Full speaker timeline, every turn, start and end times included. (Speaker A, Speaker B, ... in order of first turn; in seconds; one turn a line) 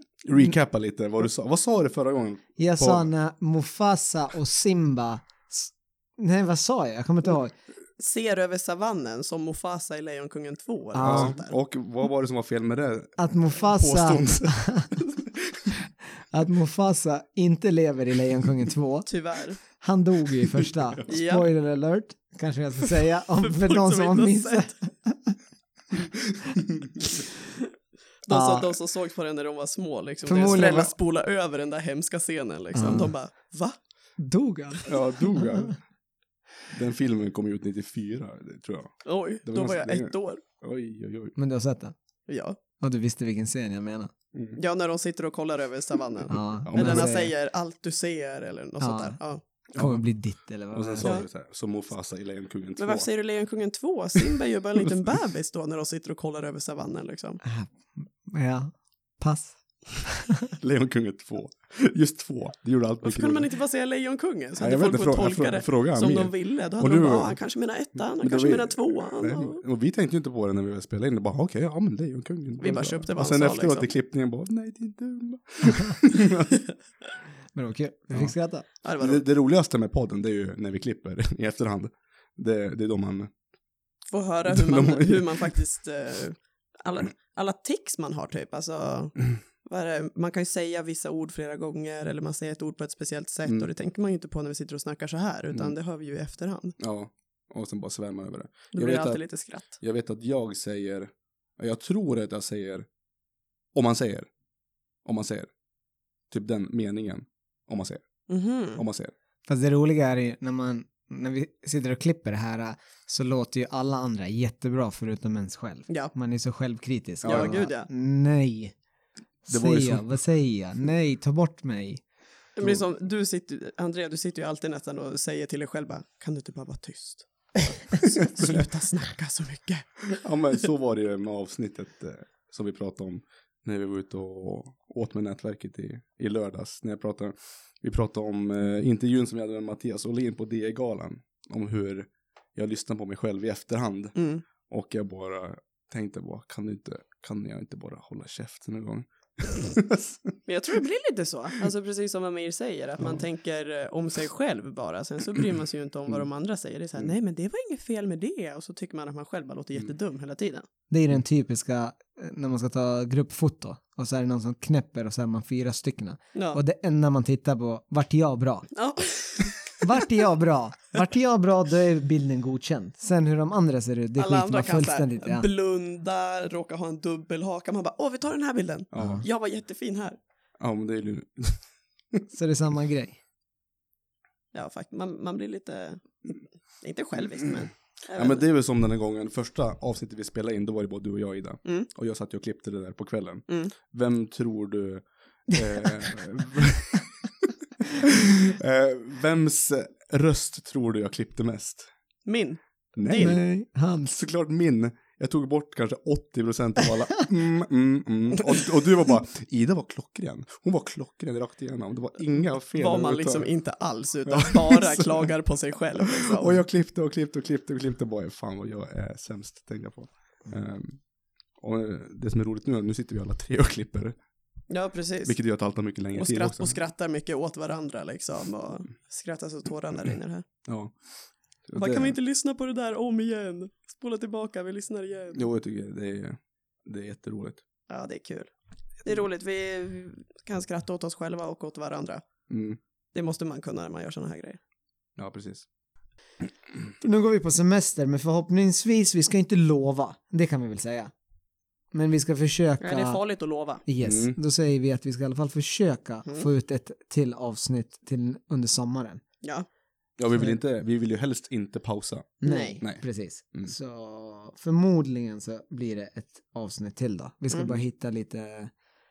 Speaker A: 0.2-3.1
Speaker B: 2.6-7.5
Speaker C: 8.0-11.5
Speaker B: 10.9-11.4
Speaker A: 11.0-15.7
Speaker B: 13.2-14.9
Speaker B: 16.2-19.1
Speaker C: 19.1-19.6
Speaker B: 19.6-25.4
Speaker C: 21.1-21.5
Speaker C: 23.4-24.7
Speaker A: 26.3-26.9
Speaker C: 28.2-33.8
Speaker B: 28.3-28.8
Speaker B: 30.2-30.9
Speaker B: 32.7-33.1
Speaker B: 34.2-35.7
Speaker A: 34.9-35.8
Speaker A: 36.7-41.4
Speaker C: 39.0-40.4
Speaker B: 41.4-41.9
Speaker C: 42.3-42.6
Speaker B: 42.8-44.1
Speaker A: 44.3-44.6
Speaker C: 44.6-49.4
Speaker B: 46.3-47.3
Speaker A: 46.6-47.1
Speaker B: 48.8-49.2
Speaker A: 49.7-50.0
Speaker B: 49.7-51.2
Speaker A: 50.7-53.1
Speaker C: 52.8-57.4
Speaker B: 57.4-60.5
Speaker A: 60.6-63.5
Speaker C: 63.0-69.6
Speaker A: 64.6-67.3
Speaker A: 68.2-76.6
Speaker C: 72.6-73.9
Speaker B: 77.5-78.7
Speaker C: 78.8-79.2
Speaker A: 78.9-83.3
Speaker C: 84.1-96.8
Speaker A: 84.5-85.5
Speaker A: 96.8-102.9
Speaker C: 98.7-99.7
Speaker A: 103.7-104.3
Speaker A: 105.0-105.5
Speaker A: 106.3-108.0
Speaker C: 108.3-108.8
Speaker A: 108.7-109.1
Speaker B: 109.5-118.7
Speaker A: 117.2-117.6
Speaker C: 117.2-117.9
Speaker B: 119.5-122.0
Speaker A: 119.5-120.0
Speaker C: 122.5-130.2
Speaker A: 122.6-122.8
Speaker A: 128.0-128.6
Speaker A: 130.2-150.4
Speaker C: 144.2-144.4
Speaker C: 150.5-160.7
Speaker B: 160.9-168.7
Speaker C: 166.3-166.6
Speaker C: 168.7-170.2
Speaker B: 169.8-175.5
Speaker C: 174.2-180.2
Speaker A: 178.9-179.2
Speaker B: 179.0-179.2
Speaker A: 180.6-181.6
Speaker B: 182.3-183.2
Speaker C: 184.5-186.3
Speaker C: 186.8-188.4
Speaker A: 188.1-201.9
Speaker B: 195.8-196.1
Speaker C: 202.2-203.4
Speaker A: 203.0-203.4
Speaker B: 203.2-204.1
Speaker A: 204.0-213.5
Speaker C: 212.8-216.6
Speaker A: 214.2-215.3
Speaker A: 216.1-221.0
Speaker A: 221.6-224.1
Speaker C: 224.7-225.4
Speaker A: 225.2-226.8
Speaker C: 226.2-230.4
Speaker A: 230.7-230.9
Speaker A: 231.7-232.1
Speaker C: 231.8-235.4
Speaker A: 235.3-237.6
Speaker C: 237.9-238.5
Speaker C: 239.0-242.2
Speaker A: 242.5-242.8
Speaker C: 243.1-244.6
Speaker A: 245.2-245.7
Speaker B: 247.0-251.1
Speaker B: 251.9-253.2
Speaker C: 252.8-253.8
Speaker B: 253.8-259.2
Speaker A: 254.0-254.4
Speaker A: 260.2-263.7
Speaker B: 262.4-268.7
Speaker C: 262.4-262.8